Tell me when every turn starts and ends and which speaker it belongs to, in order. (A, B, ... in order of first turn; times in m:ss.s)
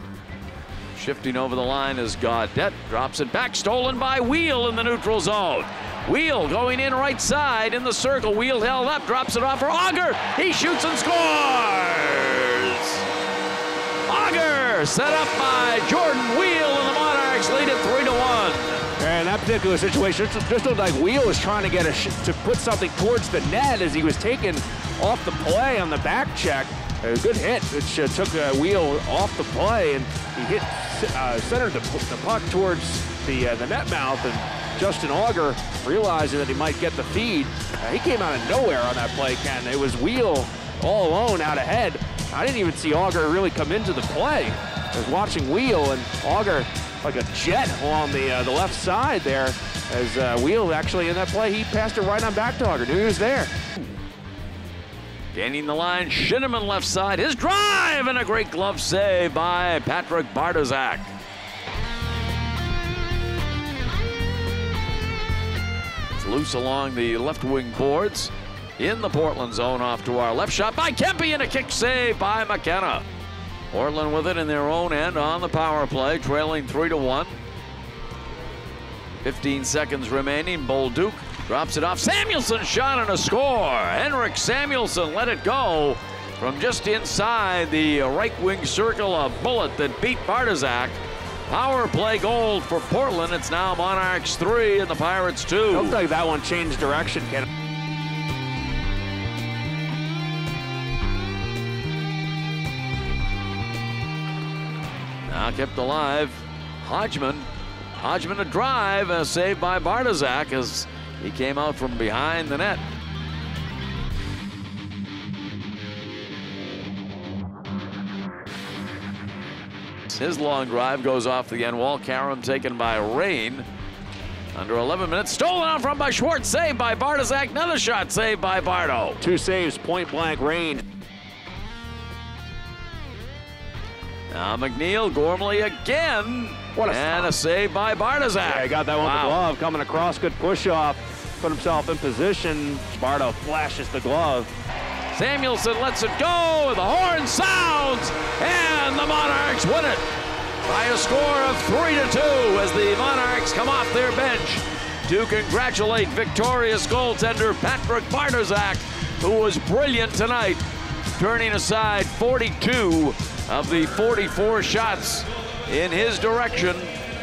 0:01.0-0:13.0 A
0:14.1-0:18.9 A
0:19.0-0:53.5 B
0:55.3-1:01.1 A
1:06.1-1:13.0 A
1:13.7-1:17.4 A
1:19.2-1:36.0 A
1:35.7-1:37.5 B
1:45.3-1:52.8 A
2:00.1-2:03.7 A
2:04.5-2:09.2 A
2:09.2-2:10.8 B
2:14.3-2:19.4 A
2:16.8-2:17.4 B
2:18.4-2:24.5 B
2:25.1-2:30.0 A
2:30.7-2:40.6 A
2:41.2-2:46.9 A